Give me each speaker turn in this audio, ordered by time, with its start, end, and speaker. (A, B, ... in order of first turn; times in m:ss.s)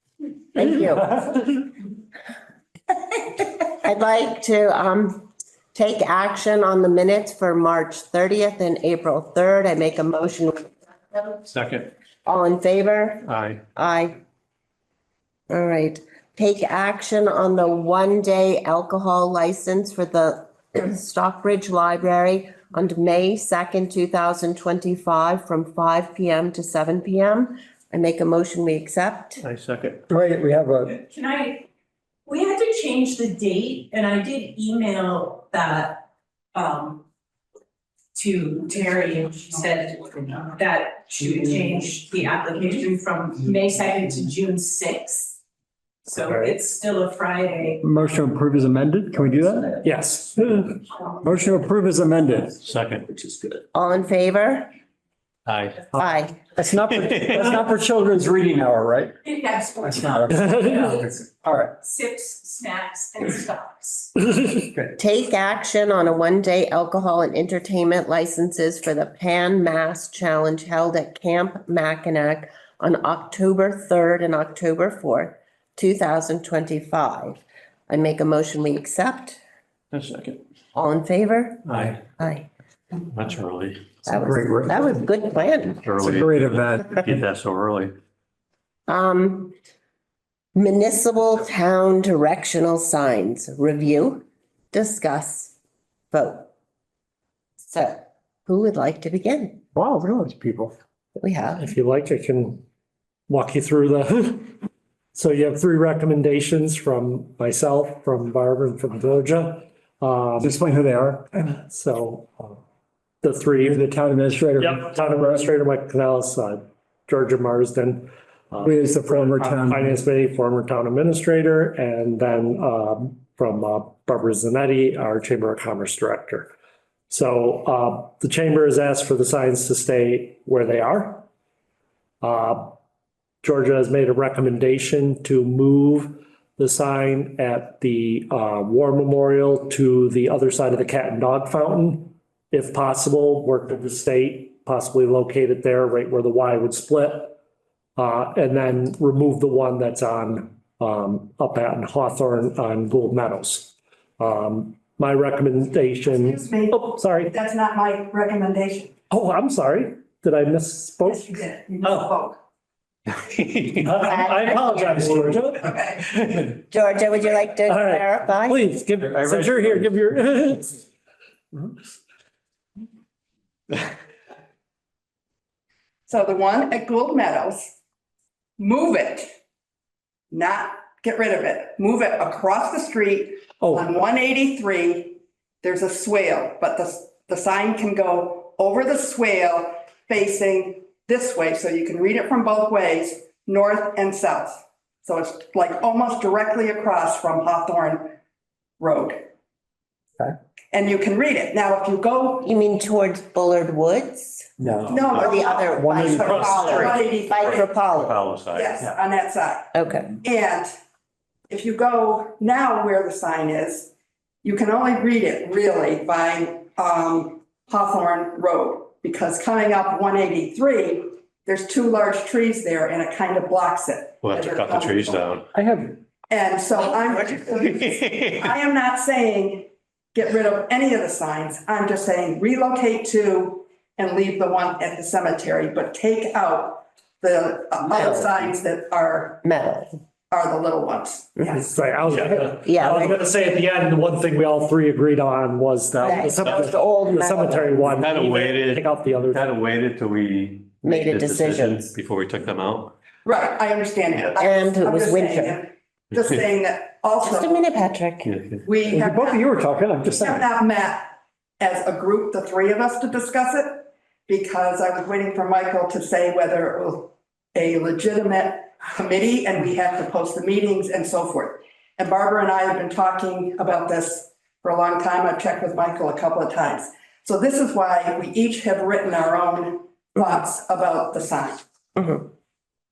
0:00.5-0:01.4 A
0:03.2-0:11.2 A
0:11.5-0:11.9 B
0:12.2-0:14.2 A
0:13.3-0:13.6 B
0:15.5-0:29.4 A
0:29.4-0:30.0 B
0:30.1-0:30.9 C
0:30.9-0:31.7 D
0:32.2-0:37.0 D
0:38.1-0:45.4 D
0:46.0-0:47.9 D
0:46.2-0:46.5 E
0:47.8-0:49.8 C
0:49.8-0:50.7 E
0:51.2-0:52.6 C
0:52.6-0:53.0 B
0:53.1-0:53.5 C
0:53.7-0:54.7 A
0:55.5-0:55.8 B
0:55.9-0:59.1 C
0:56.0-0:56.4 A
0:57.1-0:57.5 B
0:59.2-1:01.1 D
0:59.8-1:01.7 C
1:00.4-1:00.8 E
1:01.7-1:04.1 D
1:05.0-1:19.4 A
1:19.9-1:20.4 B
1:20.7-1:22.5 A
1:21.7-1:22.0 B
1:23.1-1:24.0 B
1:24.1-1:25.8 A
1:24.1-1:24.8 C
1:25.8-1:28.0 B
1:26.0-1:27.0 C
1:28.9-1:29.6 A
1:30.5-1:35.5 A
1:36.1-1:36.5 A
1:37.7-1:39.6 A
1:39.7-1:40.7 C
1:41.2-1:41.7 A
1:41.6-1:42.6 E
1:43.3-1:44.5 E
1:45.1-1:50.5 E
1:50.4-1:51.3 C
1:51.3-1:52.6 E
1:53.2-1:53.8 E
1:53.6-1:55.5 C
1:54.6-2:06.5 E
1:58.6-1:59.9 C
2:07.1-2:11.3 E
2:12.2-2:12.8 E
2:13.4-2:27.4 E
2:28.0-2:37.3 E
2:36.1-2:38.9 F
2:39.1-2:42.2 E
2:41.0-2:42.3 F
2:43.5-2:43.8 B
2:43.8-2:45.7 E
2:45.6-2:46.0 F
2:46.7-2:48.6 A
2:47.7-2:50.8 E
2:49.2-2:49.7 B
2:56.1-2:57.7 F
2:58.6-2:59.2 F
3:00.3-3:18.1 F
3:03.6-3:03.9 E
3:18.8-3:19.2 F
3:20.7-3:22.5 F
3:22.4-3:24.5 A
3:24.6-3:25.0 C
3:24.9-3:27.7 F
3:25.2-3:28.2 A
3:25.7-3:26.9 C
3:27.5-3:28.9 B
3:28.5-3:29.7 F
3:29.7-3:30.1 A
3:30.2-3:30.7 F
3:31.5-3:33.9 F
3:34.4-3:45.2 F
3:44.2-3:45.4 B
3:45.5-3:46.0 C
3:46.3-3:59.4 F
3:47.7-3:48.4 B
3:59.4-4:00.0 A
4:00.3-4:01.7 F
4:01.6-4:09.4 E
4:02.1-4:02.4 B
4:02.4-4:03.2 A
4:06.0-4:07.9 A
4:06.4-4:06.7 B
4:07.9-4:12.9 B
4:10.8-4:11.9 A
4:13.2-4:17.6 F
4:14.4-4:15.6 A
4:17.2-4:18.3 A
4:18.3-4:18.6 B
4:18.6-4:19.5 F
4:18.8-4:20.5 C
4:20.1-4:41.6 F
4:42.0-4:42.2 A